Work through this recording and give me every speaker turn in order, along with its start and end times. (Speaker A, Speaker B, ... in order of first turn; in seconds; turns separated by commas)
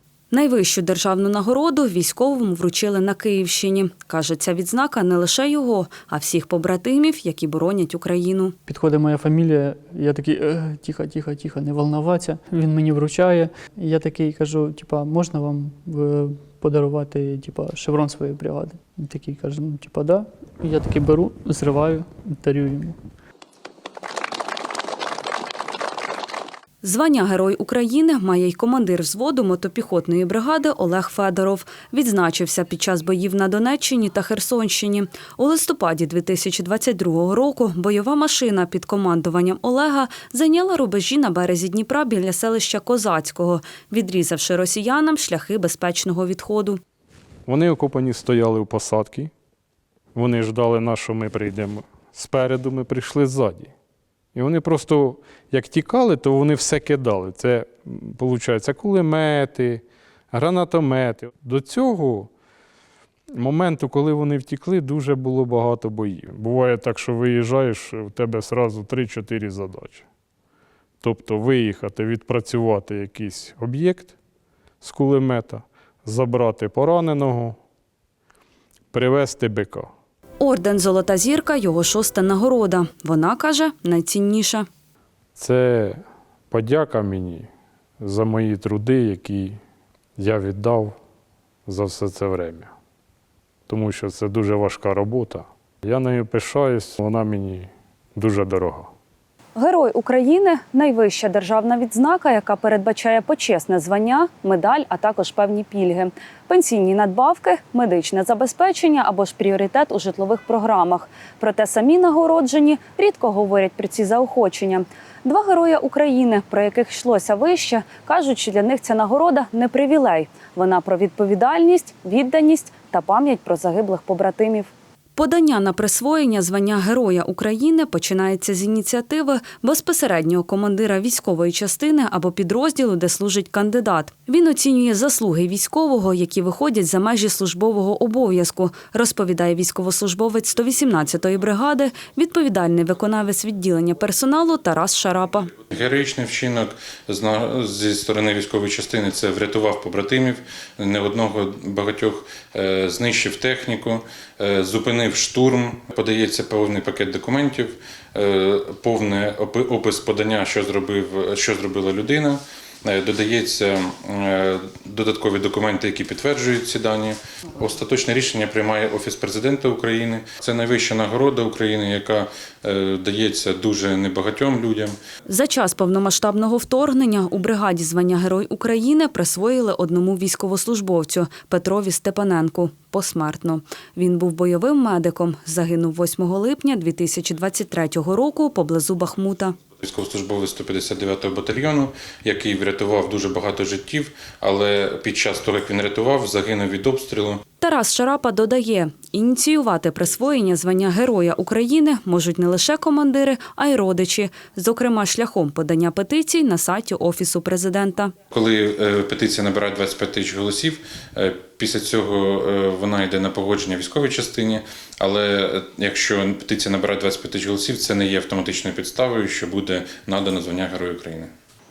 Speaker A: 0.3-8.6, Speaker B: 8.7-22.9, Speaker A: 26.8-46.8, Speaker C: 47.5-49.3, Speaker C: 50.1-53.7, Speaker C: 54.4-62.3, Speaker C: 63.4-70.0, Speaker C: 71.0-74.2, Speaker C: 74.8-77.6, Speaker C: 78.9-79.9, Speaker A: 80.4-84.7, Speaker C: 85.4-86.0, Speaker C: 86.5-87.5, Speaker C: 88.0-89.6, Speaker C: 90.2-91.0, Speaker C: 91.7-92.7, Speaker C: 93.7-98.9, Speaker A: 99.6-145.5, Speaker D: 145.7-174.9, Speaker A: 175.3-189.6, Speaker D: 189.8-197.4, Speaker A: 197.6-208.1, Speaker D: 208.3-221.3